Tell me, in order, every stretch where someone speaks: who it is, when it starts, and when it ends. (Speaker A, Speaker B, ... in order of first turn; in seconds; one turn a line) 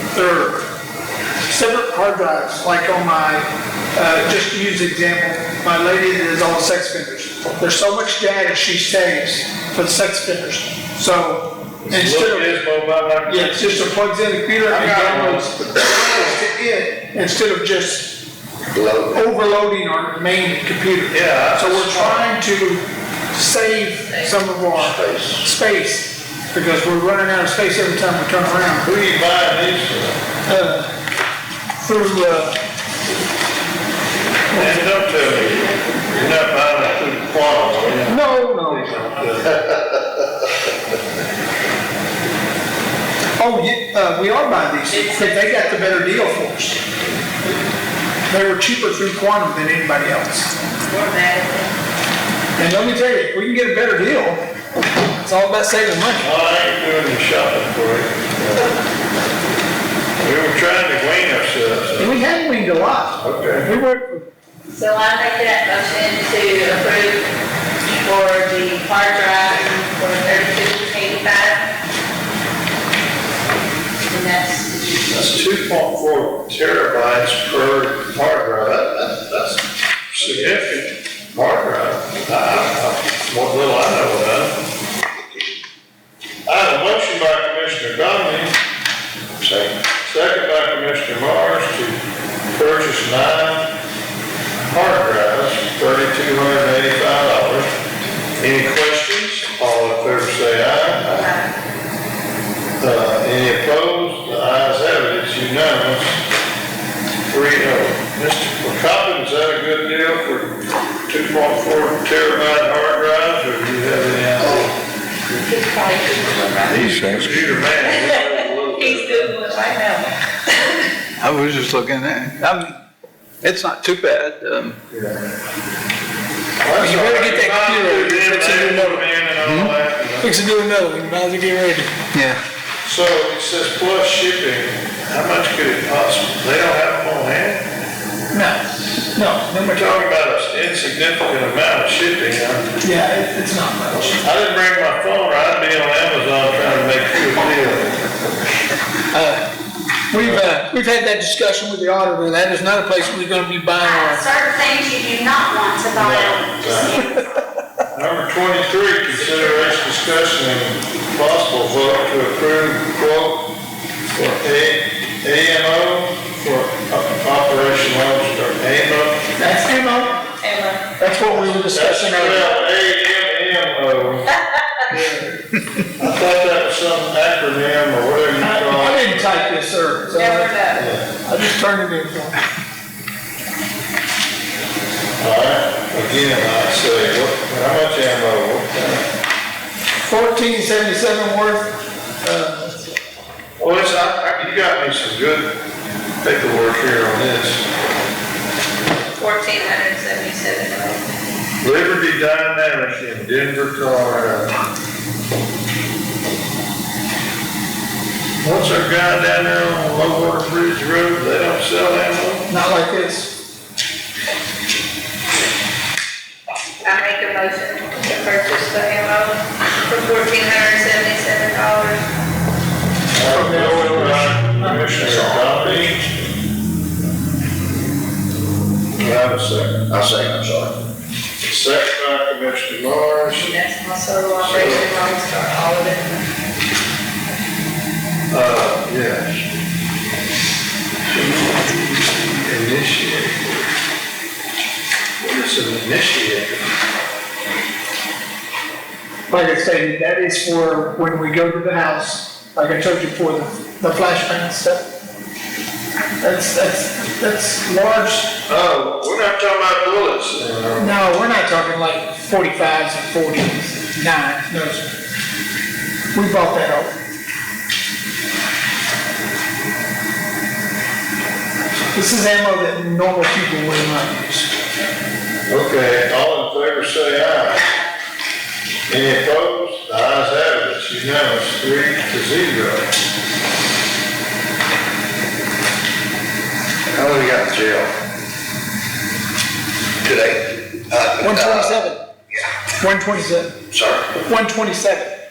Speaker A: 0.1-0.7
Speaker A: 1.5-12.5
Speaker B: 11.8-14.0
Speaker A: 13.2-18.2
Speaker B: 14.6-15.6
Speaker C: 18.7-19.2
Speaker A: 19.1-28.9
Speaker B: 21.1-22.3
Speaker C: 24.7-25.5
Speaker B: 28.8-30.2
Speaker A: 30.4-30.9
Speaker A: 31.8-32.6
Speaker B: 34.5-40.2
Speaker A: 38.0-38.9
Speaker A: 43.4-46.8
Speaker D: 44.9-46.0
Speaker A: 48.3-50.5
Speaker D: 50.9-51.7
Speaker A: 52.6-54.4
Speaker A: 55.2-56.3
Speaker B: 56.2-58.6
Speaker B: 60.2-62.2
Speaker A: 62.0-64.2
Speaker B: 63.2-63.7
Speaker D: 64.7-67.3
Speaker D: 68.0-71.7
Speaker D: 74.1-74.9
Speaker B: 75.1-79.6
Speaker B: 80.1-84.5
Speaker B: 86.5-88.5
Speaker C: 89.4-89.7
Speaker B: 90.0-92.0
Speaker B: 92.5-93.7
Speaker B: 94.7-97.7
Speaker B: 98.4-101.3
Speaker D: 101.0-101.5
Speaker B: 102.8-106.2
Speaker B: 107.3-114.7
Speaker D: 115.3-116.9
Speaker B: 116.7-119.6
Speaker C: 116.7-117.4
Speaker D: 117.8-120.9
Speaker E: 121.2-122.8
Speaker E: 123.4-124.8
Speaker B: 124.9-125.2
Speaker B: 126.6-130.3
Speaker A: 126.8-129.0
Speaker E: 129.4-129.7
Speaker A: 130.2-131.9
Speaker E: 132.1-132.4
Speaker B: 132.8-137.6
Speaker A: 138.3-138.6
Speaker A: 139.1-139.9
Speaker B: 139.6-142.7
Speaker A: 142.8-144.2
Speaker B: 144.2-148.0
Speaker A: 149.1-149.4
Speaker A: 150.1-154.4
Speaker B: 150.1-150.4
Speaker F: 153.8-157.1
Speaker B: 156.0-157.0
Speaker B: 157.9-163.5
Speaker B: 164.1-169.2
Speaker A: 169.4-170.2
Speaker D: 170.3-170.8
Speaker A: 171.0-172.5
Speaker B: 171.3-174.3
Speaker A: 174.9-175.3
Speaker B: 176.0-179.3
Speaker A: 178.4-180.6
Speaker D: 180.1-180.9
Speaker B: 180.7-181.1
Speaker A: 181.1-182.3
Speaker B: 185.2-189.1
Speaker A: 190.0-192.9
Speaker B: 193.6-195.5
Speaker B: 196.2-197.6
Speaker D: 199.1-201.0
Speaker B: 201.6-204.5
Speaker B: 208.4-212.5
Speaker A: 212.5-213.3
Speaker D: 216.8-222.0
Speaker B: 223.1-226.1
Speaker A: 223.3-224.8
Speaker C: 225.2-225.5
Speaker B: 228.9-229.9
Speaker C: 229.9-230.7
Speaker B: 231.4-233.6
Speaker D: 233.3-236.2
Speaker B: 234.4-234.9
Speaker B: 238.3-239.4
Speaker B: 241.1-243.7
Speaker B: 245.2-246.7
Speaker A: 249.3-254.8
Speaker A: 256.2-258.3
Speaker B: 258.3-261.0
Speaker A: 260.8-264.9
Speaker A: 266.1-266.9
Speaker A: 271.9-274.5
Speaker B: 275.5-277.6
Speaker B: 278.9-282.9
Speaker C: 286.9-287.9
Speaker C: 290.0-291.8
Speaker A: 291.2-292.0
Speaker A: 292.8-293.6
Speaker C: 293.7-294.1
Speaker A: 294.1-295.1